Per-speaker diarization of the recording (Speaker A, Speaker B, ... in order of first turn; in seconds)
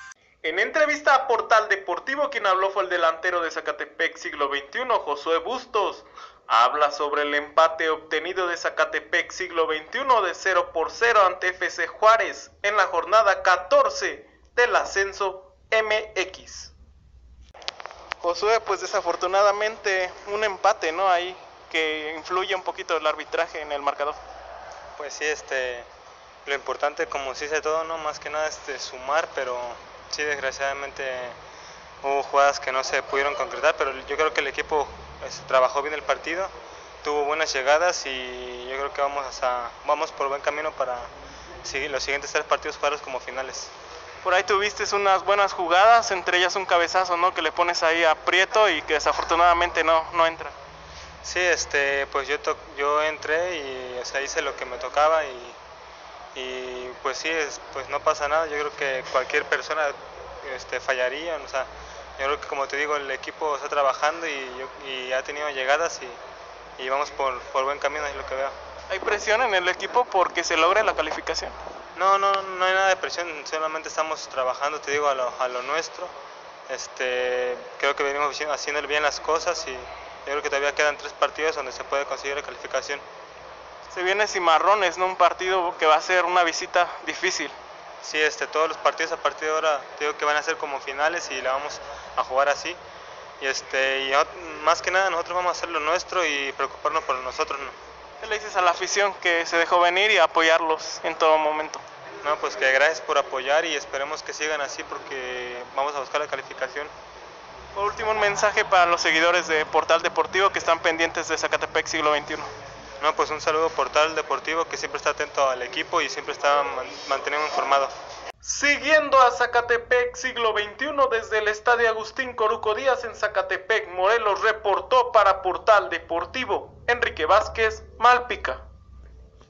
Speaker A: 0.4-16.7, 18.2-24.2, 44.2-50.5, 68.9-71.5, 83.9-87.5, 98.2-101.8, 107.8-112.5, 118.4-128.6
Speaker B: 25.0-25.9, 26.4-31.4, 32.0-41.1, 41.6-43.7, 51.2-55.6, 56.3-66.2, 66.8-68.5, 72.0-76.1, 76.7-83.0, 88.0-92.8, 93.4-97.8, 102.2-106.9, 113.0-117.9